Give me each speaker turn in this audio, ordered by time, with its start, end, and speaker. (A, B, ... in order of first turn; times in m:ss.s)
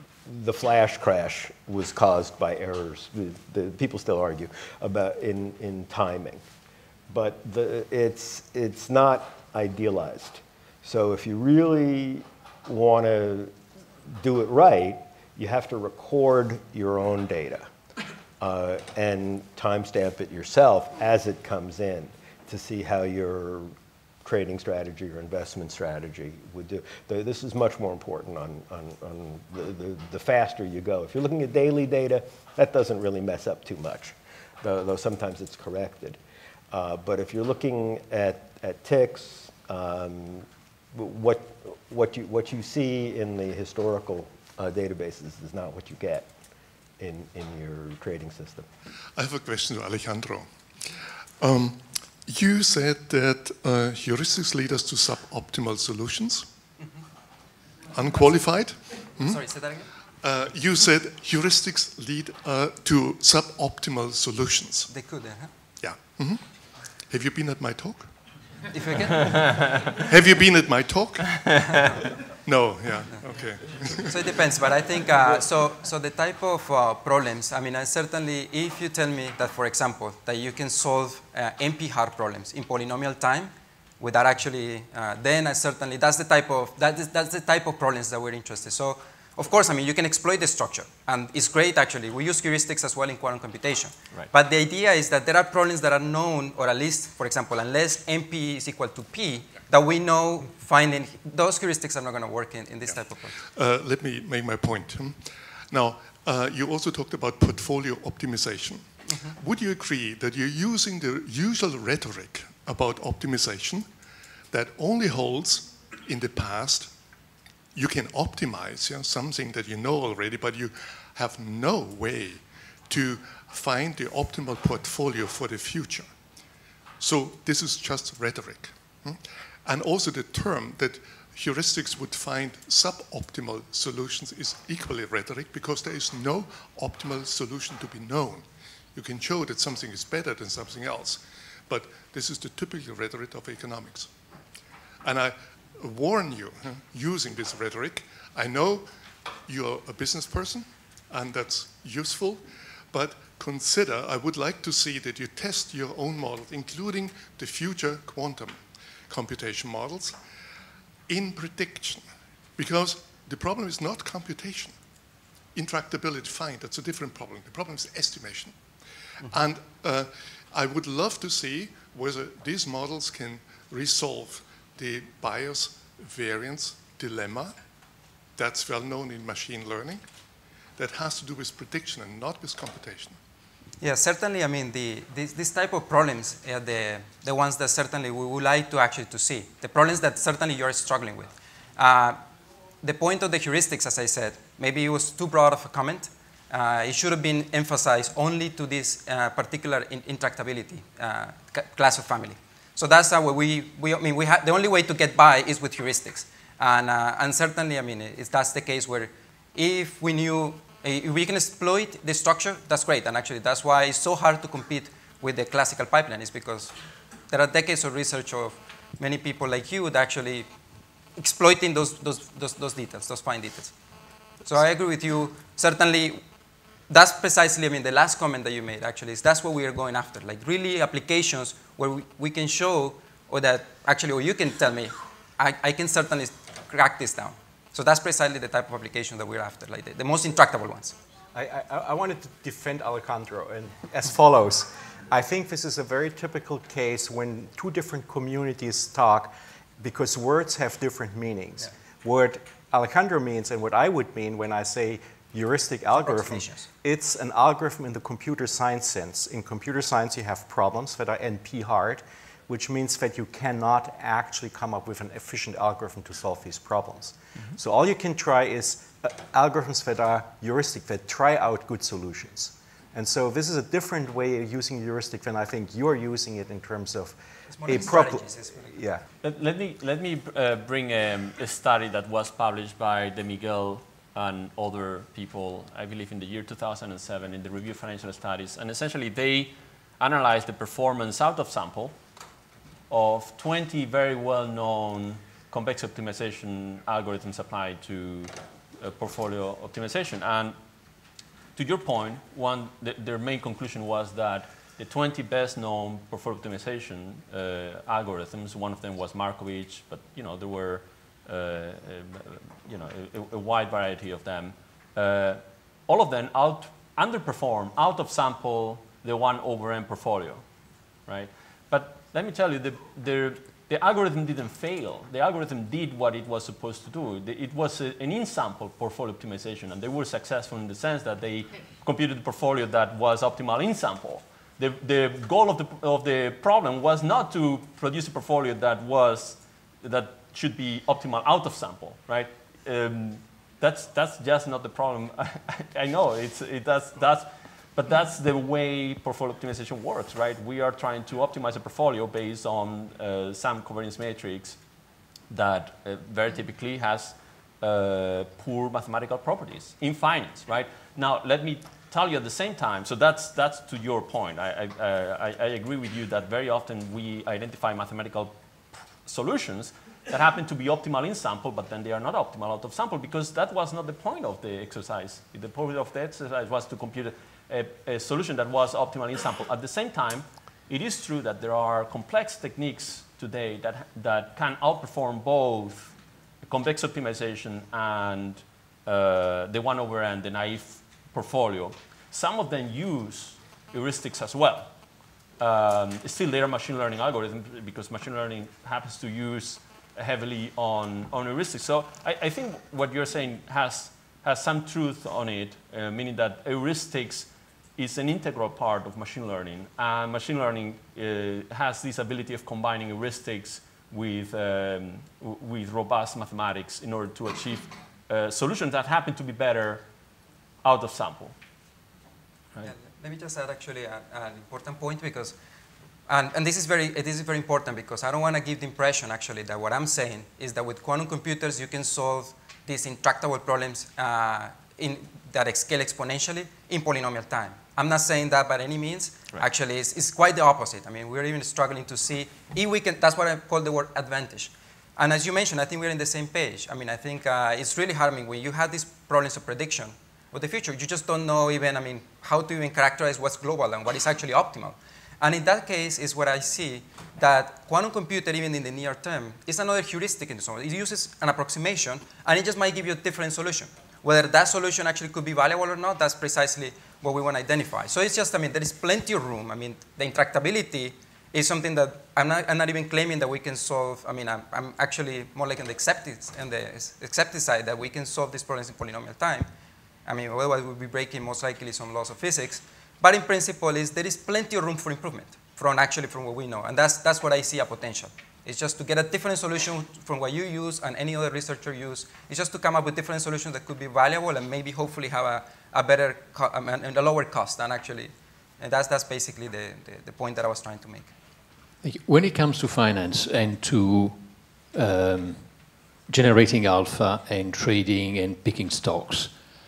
0:00.3-0:06.4 A
0:07.1-0:13.5 A
0:14.1-0:17.7 A
0:18.4-0:23.7 A
0:24.2-0:36.2 A
0:36.7-0:46.3 A
0:47.0-0:48.7 A
0:49.2-0:56.4 B
0:57.9-0:59.4 B
0:59.2-0:59.9 C
1:00.2-1:04.9 B
1:04.9-1:05.5 C
1:05.8-1:06.4 B
1:07.1-1:08.1 B
1:08.7-1:10.0 C
1:09.9-1:11.8 B
1:11.7-1:12.0 C
1:12.4-1:14.1 B
1:14.1-1:43.4 C
1:43.4-1:48.8 B
1:49.3-1:53.9 B
1:54.5-1:56.9 B
1:57.7-2:06.1 B
2:07.0-2:24.1 B
2:25.0-2:28.9 B
2:29.5-2:40.2 B
2:41.1-2:42.0 B
2:42.6-2:44.7 B
2:45.6-2:48.6 B
2:49.2-2:57.6 B
2:58.4-3:00.0 B
3:00.8-3:03.2 B
3:03.8-3:12.2 C
3:12.8-3:36.7 C
3:37.3-3:40.5 C
3:41.2-3:43.7 C
3:44.4-3:46.2 C
3:46.9-4:01.0 C
4:01.4-4:39.0 D
4:15.9-4:16.7 C
4:37.5-4:38.8 C
4:39.2-4:52.0 E
4:52.9-5:00.6 E
5:01.6-5:20.4 E
5:21.1-5:54.6 E
5:55.3-6:34.7 E
6:35.4-6:59.9 E
7:00.6-7:01.4 E
7:02.6-7:05.4 C
7:06.1-7:59.5 C
8:00.1-8:21.1 C
8:21.8-8:29.4 F